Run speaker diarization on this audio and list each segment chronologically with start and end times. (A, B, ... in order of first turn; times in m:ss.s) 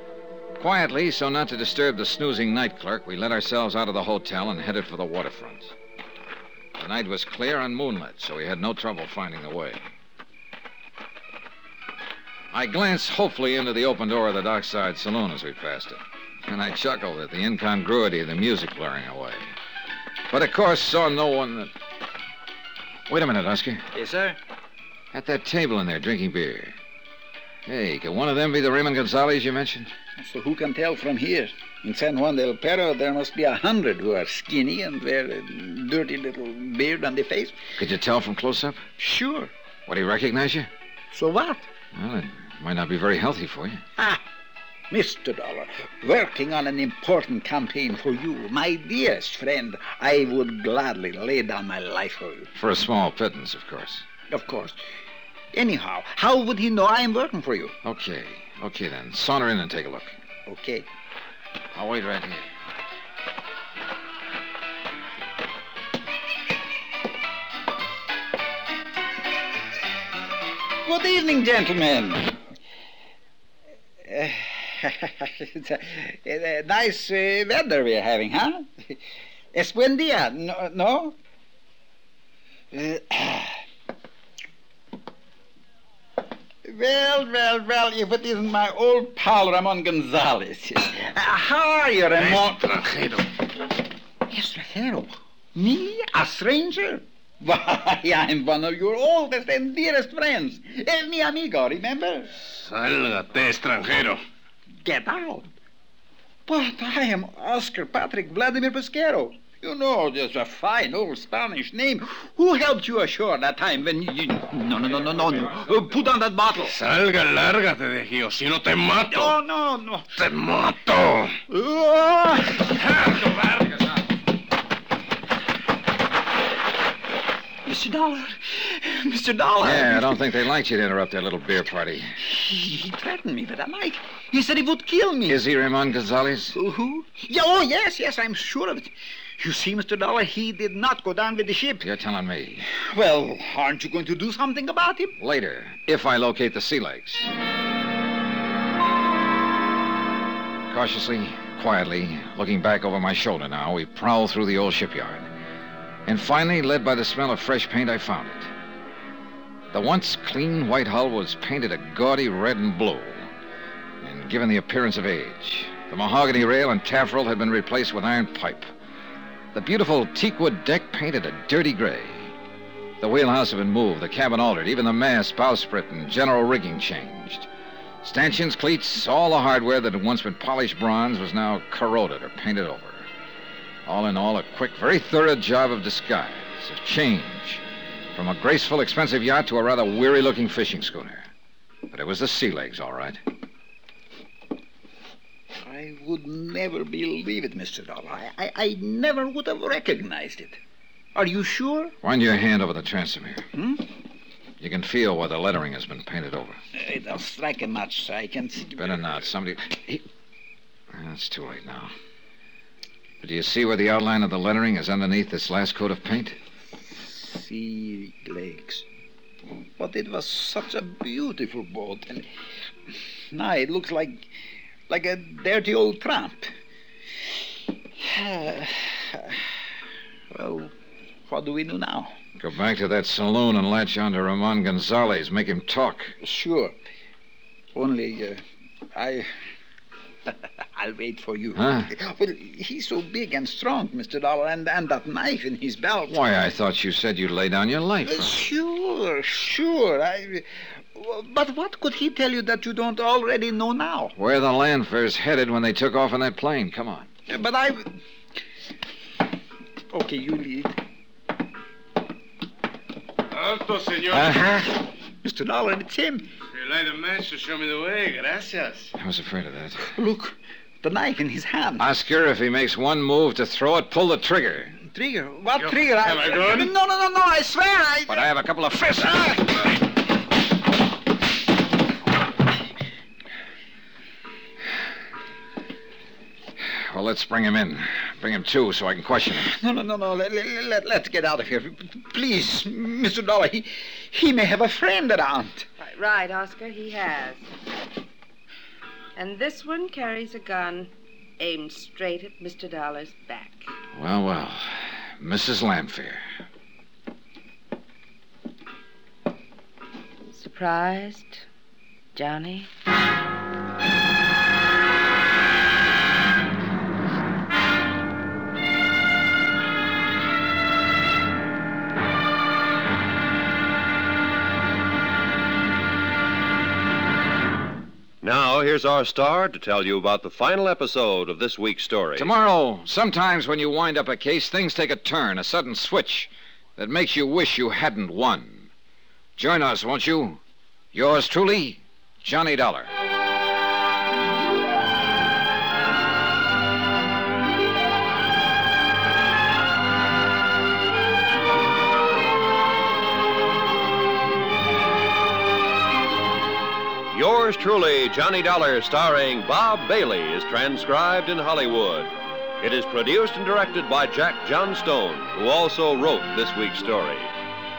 0:00.6-0:05.7 A
0:06.8-0:09.8 A
0:12.5-0:19.5 A
0:20.3-0:21.7 A
0:23.1-0:23.8 A
0:23.9-0:24.4 B
0:25.1-0:26.8 A
0:27.6-0:29.9 A
0:30.2-0:37.6 B
0:37.8-0:38.8 A
0:39.0-0:39.5 B
0:39.9-0:40.7 A
0:41.1-0:41.6 B
0:41.9-0:43.8 A
0:44.9-0:52.5 B
0:52.5-0:54.0 A
0:54.3-0:54.8 B
0:55.5-0:57.7 B
0:57.8-1:00.2 A
1:00.5-1:00.8 B
1:01.7-1:02.4 A
1:10.8-1:12.3 B
1:14.0-1:19.0 B
1:19.5-1:21.1 B
1:22.7-1:23.6 B
1:26.6-1:32.7 B
1:32.2-1:33.3 C
1:34.3-1:42.3 B
1:42.5-1:44.2 C
1:44.8-1:45.5 B
1:46.5-1:56.7 B
1:56.7-1:59.3 C
1:59.1-2:00.1 B
2:00.2-2:01.4 C
2:01.5-2:02.7 B
2:02.7-2:03.7 C
2:07.6-2:10.2 B
2:09.6-2:12.2 A
2:12.2-2:15.4 B
2:15.3-2:16.6 A
2:16.5-2:21.9 B
2:21.8-2:22.6 A
2:22.7-2:25.1 B
2:25.2-2:27.3 A
2:30.7-2:35.3 A
2:36.0-2:38.5 A
2:39.7-2:43.3 A
2:44.0-2:48.7 A
2:49.5-2:52.3 A
2:53.0-2:57.5 A
2:58.0-3:03.1 A
3:03.8-3:07.6 A
3:08.1-3:11.3 A
3:11.9-3:13.2 A
3:15.6-3:20.6 B
3:21.1-3:21.9 B
3:22.0-3:23.5 A
3:23.5-3:23.8 B
3:24.6-3:26.6 A
3:26.7-3:29.1 B
3:28.8-3:30.0 A
3:30.9-3:31.9 A
3:33.2-3:36.4 A
3:36.9-3:38.8 B
3:39.8-3:42.3 B
3:43.3-3:44.3 B
3:44.9-3:46.5 B
3:48.0-3:49.4 B
3:50.3-3:50.7 B
3:51.3-3:52.1 B
3:52.4-3:56.2 A
3:56.2-3:56.8 B
3:57.7-3:58.4 B
3:58.9-3:59.3 B
4:00.8-4:06.2 B
4:01.5-4:01.9 A
4:06.1-4:08.4 A
4:08.1-4:10.4 B
4:11.0-4:14.1 B
4:14.2-4:17.1 A
4:17.3-4:17.8 B
4:19.9-4:20.7 B
4:23.3-4:24.4 C
4:24.0-4:24.7 A
4:25.2-4:26.2 B
4:26.6-4:28.9 C
4:28.9-4:29.9 A
4:29.9-4:31.8 B
4:31.8-4:34.8 A
4:34.9-4:38.2 B
4:35.6-4:36.7 C
4:38.1-4:39.7 A
4:46.9-4:49.5 A
4:49.3-4:55.7 B
4:55.8-4:57.5 D
4:59.2-5:03.7 D
5:04.0-5:06.2 A
5:10.3-5:11.4 D
5:12.1-5:12.7 D
5:28.2-5:32.3 E
5:32.2-5:38.7 A
5:39.4-5:40.4 A
5:40.9-5:42.9 A
5:57.1-6:07.3 E